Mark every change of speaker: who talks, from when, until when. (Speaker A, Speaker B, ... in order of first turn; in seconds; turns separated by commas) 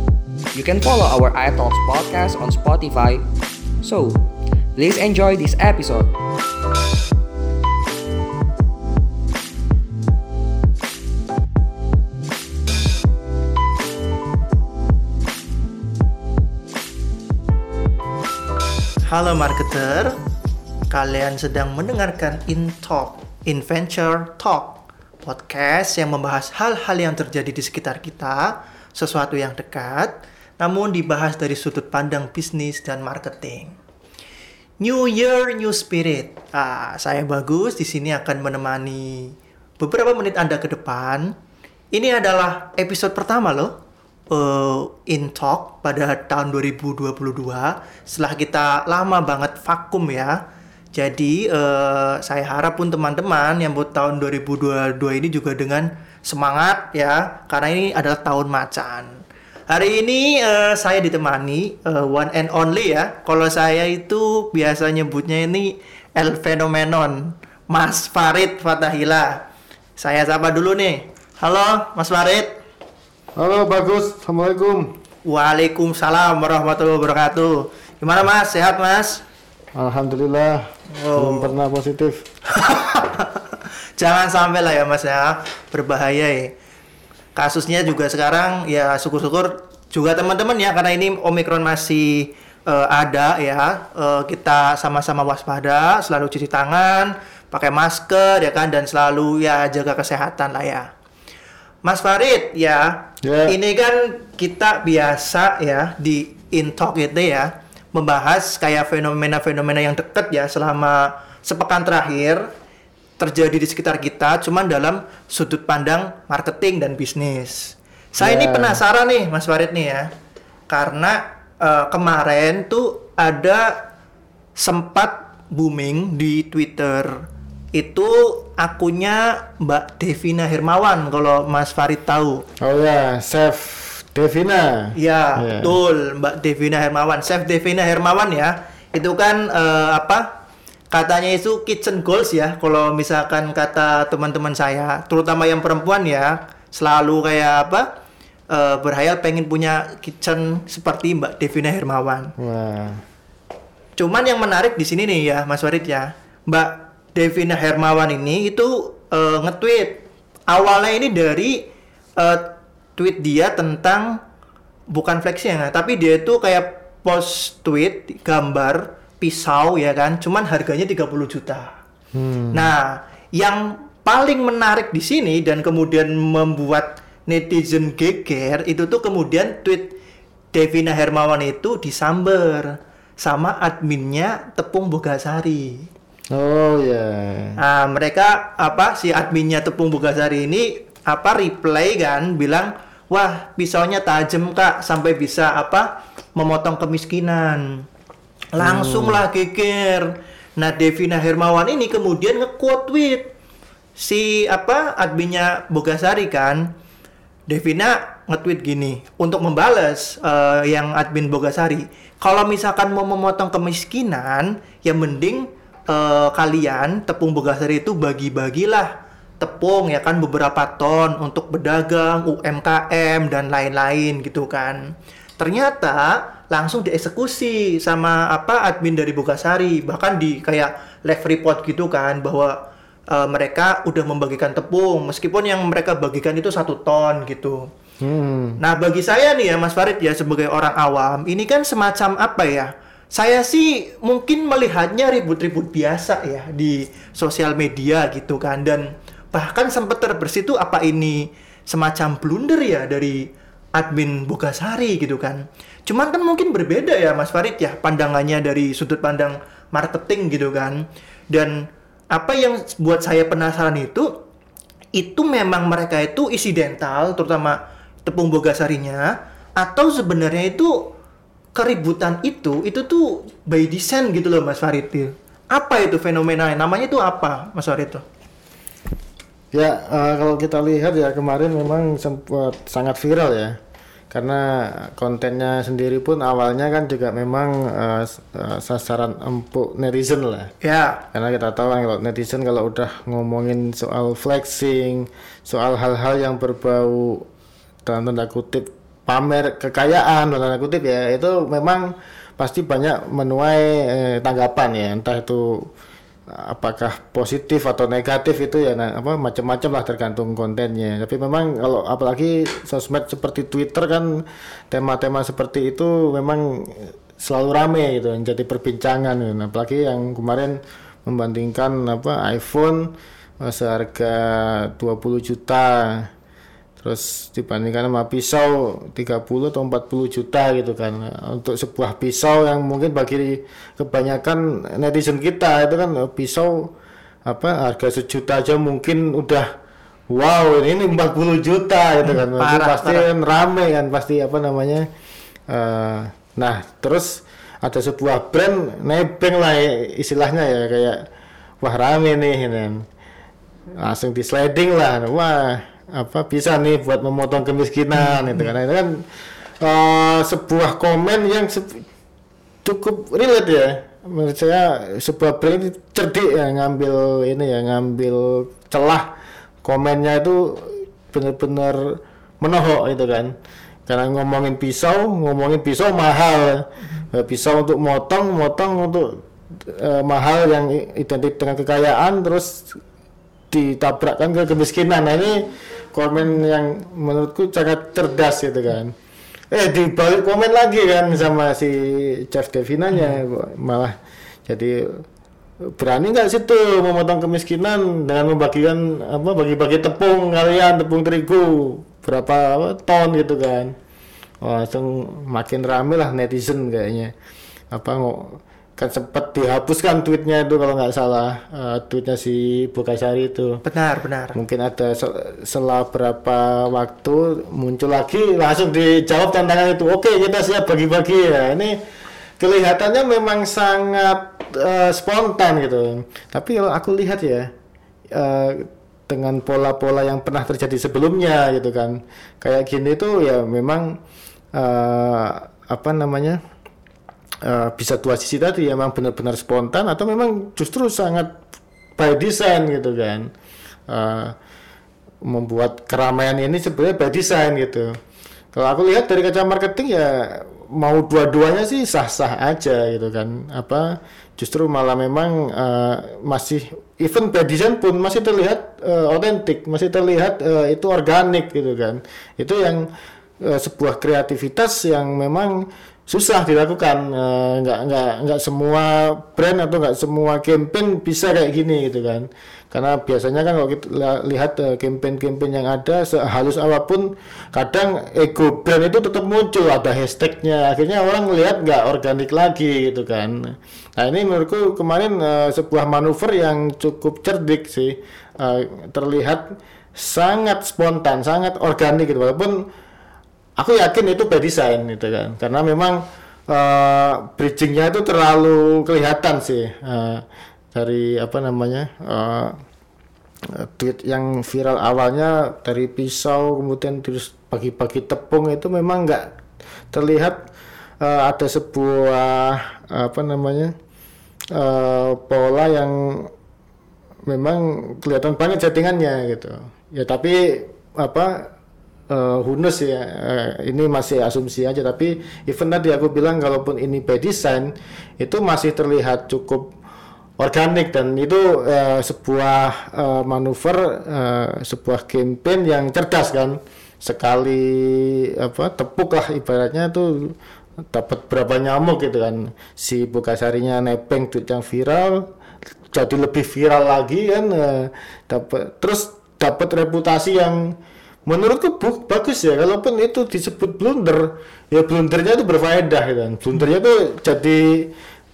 Speaker A: 0.5-3.2, Speaker A: 3.8-6.1, Speaker B: 19.1-20.2, Speaker B: 20.9-33.8, Speaker B: 34.8-41.3, Speaker B: 41.9-43.8, Speaker B: 44.3-69.4, Speaker B: 70.0-72.5, Speaker C: 73.3-75.0, Speaker B: 75.2-79.2, Speaker C: 79.7-82.2, Speaker B: 80.9-81.6, Speaker B: 82.5-86.5, Speaker B: 87.3-100.9, Speaker B: 101.8-112.5, Speaker C: 103.2-103.5, Speaker B: 113.2-120.1, Speaker C: 118.2-118.8, Speaker B: 120.7-123.9, Speaker B: 124.5-132.4, Speaker C: 132.6-135.8, Speaker B: 134.9-140.4, Speaker B: 140.9-147.9, Speaker B: 148.5-152.3, Speaker C: 152.4-153.0, Speaker B: 154.0-161.7, Speaker B: 162.2-164.2, Speaker B: 164.9-171.8, Speaker C: 172.1-172.7, Speaker B: 172.5-179.9, Speaker B: 180.5-185.9, Speaker C: 186.3-187.6, Speaker B: 187.6-197.9, Speaker B: 198.5-203.3, Speaker C: 198.6-199.2, Speaker B: 203.9-206.7, Speaker B: 207.5-237.7, Speaker C: 238.0-238.6, Speaker B: 238.6-264.2, Speaker B: 264.9-270.9, Speaker B: 271.5-278.0, Speaker C: 279.5-283.6, Speaker C: 284.1-290.5, Speaker B: 290.6-291.0, Speaker C: 291.1-297.3, Speaker C: 297.8-305.7, Speaker C: 306.3-326.1, Speaker C: 326.8-336.7, Speaker C: 337.2-339.5, Speaker C: 340.1-344.9, Speaker B: 342.0-343.1, Speaker C: 345.5-351.1, Speaker C: 351.6-352.9, Speaker C: 353.8-359.0, Speaker B: 357.9-358.5, Speaker C: 359.6-361.8, Speaker C: 362.6-369.1, Speaker C: 369.6-373.3, Speaker C: 373.9-382.8, Speaker C: 383.5-388.9, Speaker C: 389.5-395.0, Speaker C: 395.6-403.7, Speaker C: 404.4-407.1, Speaker C: 407.7-413.6, Speaker B: 413.6-414.4, Speaker C: 414.3-421.8, Speaker C: 422.4-427.5, Speaker C: 428.1-434.0, Speaker C: 434.5-436.4, Speaker C: 437.4-441.4, Speaker C: 442.0-443.3, Speaker C: 443.9-444.4, Speaker C: 445.2-447.9, Speaker C: 448.5-462.9, Speaker C: 463.4-492.6, Speaker C: 493.6-502.6, Speaker C: 503.5-509.4, Speaker C: 509.9-510.4, Speaker C: 511.0-513.7, Speaker C: 514.5-516.3, Speaker C: 517.3-521.5, Speaker C: 522.1-529.7, Speaker C: 530.4-540.4, Speaker C: 540.9-545.3, Speaker C: 545.9-557.9